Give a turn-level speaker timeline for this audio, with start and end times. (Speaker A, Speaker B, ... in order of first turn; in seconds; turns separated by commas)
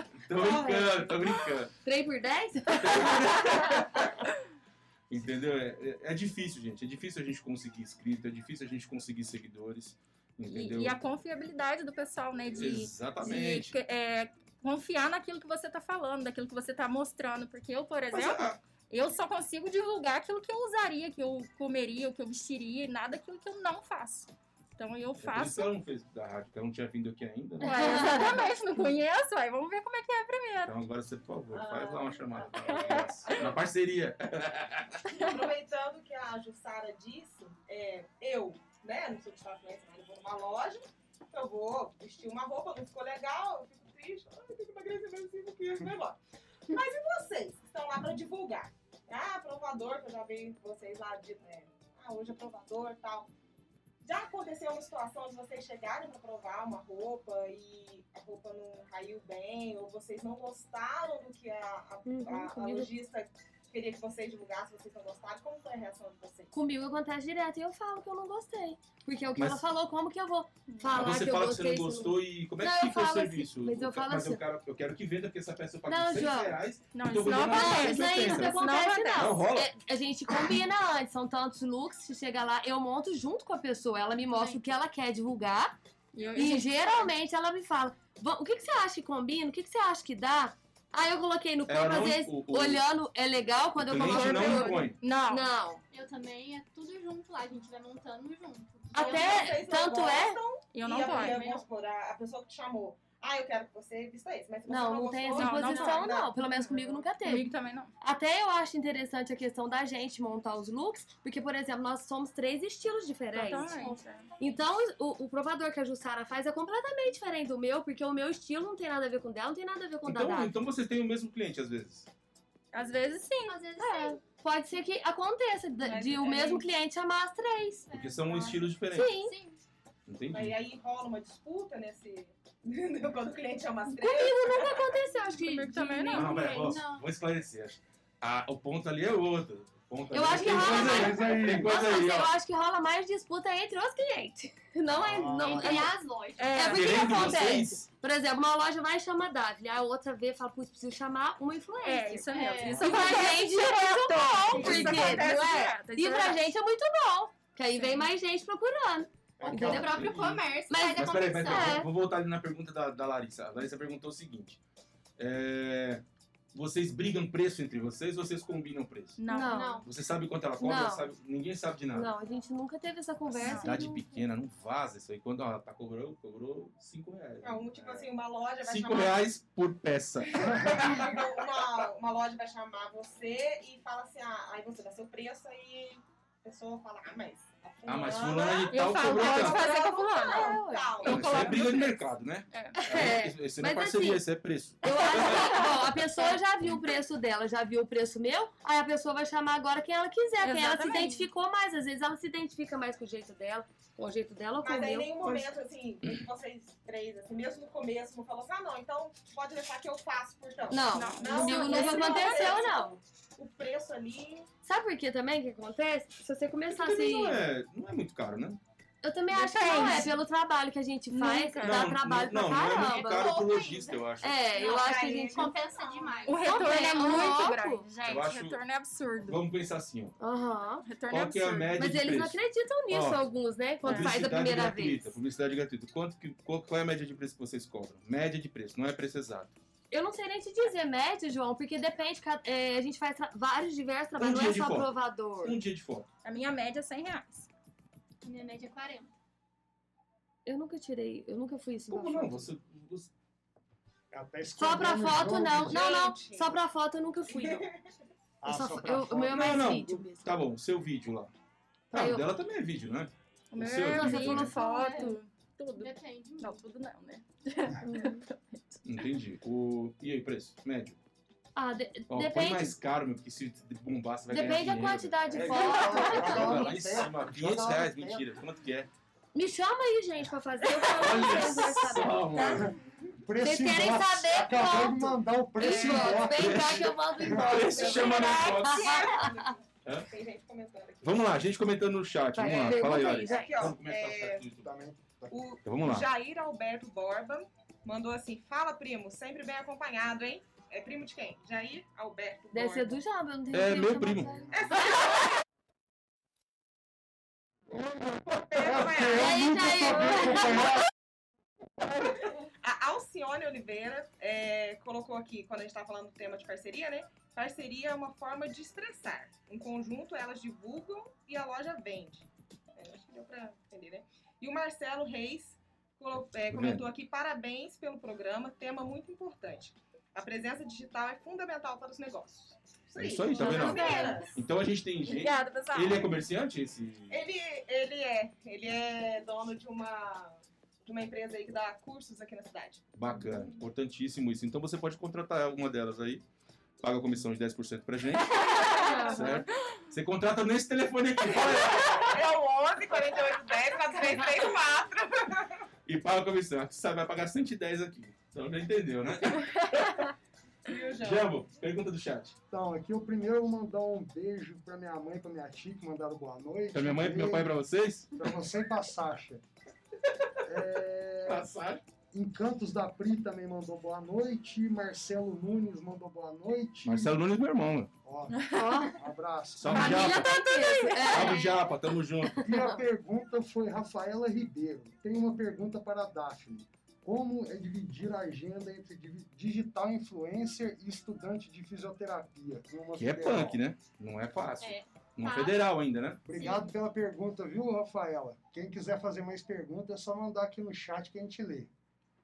Speaker A: 0.2-1.7, Speaker B: 0.3-1.1, Speaker B: 1.8-4.1, Speaker A: 2.8-4.1, Speaker A: 5.1-11.0, Speaker C: 10.5-25.7, Speaker A: 12.6-13.8, Speaker A: 18.1-18.6, Speaker A: 25.2-28.2, Speaker C: 27.6-30.8, Speaker B: 27.6-28.5, Speaker A: 30.6-35.0, Speaker D: 31.5-33.5, Speaker D: 35.1-46.2, Speaker D: 46.7-53.3, Speaker D: 54.0-66.5, Speaker B: 62.1-62.9, Speaker B: 66.5-74.4, Speaker A: 69.4-69.6, Speaker C: 70.7-71.2, Speaker A: 70.9-79.7, Speaker B: 75.9-76.6, Speaker C: 76.9-79.4, Speaker B: 77.3-85.8, Speaker E: 84.3-84.7, Speaker C: 86.1-86.7, Speaker B: 86.4-95.8, Speaker A: 91.7-92.8, Speaker A: 93.8-95.0, Speaker C: 94.2-95.5, Speaker E: 95.9-99.6, Speaker B: 98.9-100.4, Speaker D: 98.9-106.4, Speaker C: 100.7-101.6, Speaker E: 101.0-101.6, Speaker B: 104.7-113.8, Speaker C: 105.3-106.1, Speaker C: 107.2-107.9, Speaker C: 113.3-114.3, Speaker E: 113.7-114.0, Speaker B: 114.4-120.6, Speaker A: 120.1-122.1, Speaker C: 122.7-123.6, Speaker E: 123.5-124.2, Speaker B: 123.8-127.9, Speaker D: 126.0-126.6, Speaker E: 127.9-129.6, Speaker A: 127.9-129.1, Speaker B: 128.9-129.3, Speaker A: 130.1-130.6, Speaker D: 130.3-135.0, Speaker B: 134.0-136.7, Speaker C: 135.4-136.3, Speaker E: 135.8-137.1, Speaker A: 136.1-142.4, Speaker B: 140.1-146.0, Speaker F: 140.3-141.8, Speaker F: 144.9-145.8, Speaker E: 145.4-146.7, Speaker C: 146.4-147.3, Speaker B: 146.5-160.0, Speaker A: 146.7-147.9, Speaker C: 151.8-156.5, Speaker E: 152.3-153.3, Speaker E: 154.5-155.2, Speaker F: 159.4-160.1, Speaker E: 159.5-161.9, Speaker A: 159.5-164.6, Speaker B: 160.7-161.9, Speaker A: 165.2-169.2, Speaker C: 169.2-169.8, Speaker B: 169.3-169.8, Speaker E: 169.4-169.9, Speaker A: 169.8-172.1, Speaker B: 170.6-171.1, Speaker B: 171.9-174.1, Speaker A: 173.4-178.1, Speaker C: 173.4-173.7, Speaker D: 177.4-179.2, Speaker A: 178.6-181.2, Speaker D: 180.3-191.6, Speaker F: 180.4-180.8, Speaker A: 187.9-189.7, Speaker C: 188.7-192.8, Speaker B: 190.2-191.0, Speaker A: 191.0-195.7, Speaker B: 192.8-194.2, Speaker B: 194.8-205.5, Speaker C: 195.3-195.6, Speaker C: 200.4-201.3, Speaker E: 200.9-201.2, Speaker D: 204.6-214.5, Speaker B: 210.7-213.0, Speaker C: 210.9-212.7, Speaker B: 214.6-217.4, Speaker A: 216.7-218.6, Speaker B: 219.0-223.5, Speaker C: 219.3-220.2, Speaker C: 221.1-221.9, Speaker A: 221.6-224.4, Speaker E: 222.7-224.1, Speaker B: 224.2-225.6, Speaker D: 224.5-226.3, Speaker E: 224.7-227.4, Speaker B: 226.3-227.9, Speaker C: 226.3-229.4, Speaker A: 228.0-228.6, Speaker A: 229.3-230.2, Speaker B: 230.2-230.9, Speaker C: 230.8-231.8, Speaker A: 231.1-233.2, Speaker B: 231.8-235.1, Speaker C: 233.8-234.2, Speaker A: 233.8-239.6, Speaker B: 239.9-245.6, Speaker A: 244.2-246.1, Speaker C: 246.2-247.5, Speaker E: 248.2-249.1, Speaker B: 250.4-252.5, Speaker A: 251.9-253.1, Speaker F: 254.1-256.0, Speaker B: 254.6-257.7, Speaker D: 255.4-256.6, Speaker D: 257.3-257.9, Speaker F: 258.4-259.8, Speaker B: 258.5-260.3, Speaker A: 259.3-261.3, Speaker B: 261.9-262.3, Speaker A: 261.9-264.5, Speaker C: 263.5-268.8, Speaker B: 263.9-264.6, Speaker E: 264.5-265.2, Speaker E: 265.8-266.6, Speaker B: 267.8-268.2, Speaker A: 268.9-271.0, Speaker B: 271.6-272.8, Speaker A: 272.1-278.9, Speaker B: 274.3-277.1, Speaker F: 275.3-278.3, Speaker B: 279.3-282.7, Speaker A: 280.8-282.7, Speaker F: 282.4-287.7, Speaker B: 283.4-289.4, Speaker A: 285.6-289.2, Speaker D: 287.5-291.4, Speaker A: 291.0-294.7, Speaker B: 292.4-293.7, Speaker D: 292.5-294.4, Speaker F: 294.6-295.4, Speaker D: 295.3-303.0, Speaker A: 295.6-296.1, Speaker B: 302.5-304.5, Speaker A: 303.5-304.3, Speaker F: 304.0-304.5, Speaker D: 304.5-305.1, Speaker F: 308.0-310.9, Speaker D: 308.4-310.1, Speaker B: 309.1-310.7, Speaker D: 312.6-334.4, Speaker A: 326.4-326.9, Speaker A: 333.0-337.2, Speaker B: 333.4-334.3, Speaker C: 335.1-336.1, Speaker D: 337.1-342.9, Speaker A: 342.9-346.2, Speaker A: 346.8-352.1, Speaker D: 348.4-349.5, Speaker B: 348.7-349.4, Speaker D: 351.3-355.6, Speaker A: 355.9-360.1, Speaker D: 360.6-361.4, Speaker A: 361.0-362.4, Speaker F: 362.5-367.6, Speaker A: 366.7-368.2, Speaker F: 368.2-369.4, Speaker F: 370.4-371.5, Speaker A: 371.2-371.8, Speaker F: 372.1-377.2, Speaker A: 376.9-377.9, Speaker F: 378.0-380.1, Speaker C: 378.4-378.7, Speaker B: 378.5-379.0, Speaker A: 379.6-380.4, Speaker B: 379.7-381.6, Speaker C: 379.8-381.4, Speaker A: 381.1-382.4, Speaker B: 382.3-382.8, Speaker F: 382.4-393.6, Speaker A: 393.0-396.2, Speaker E: 394.6-395.6, Speaker F: 396.3-401.7, Speaker E: 396.3-396.7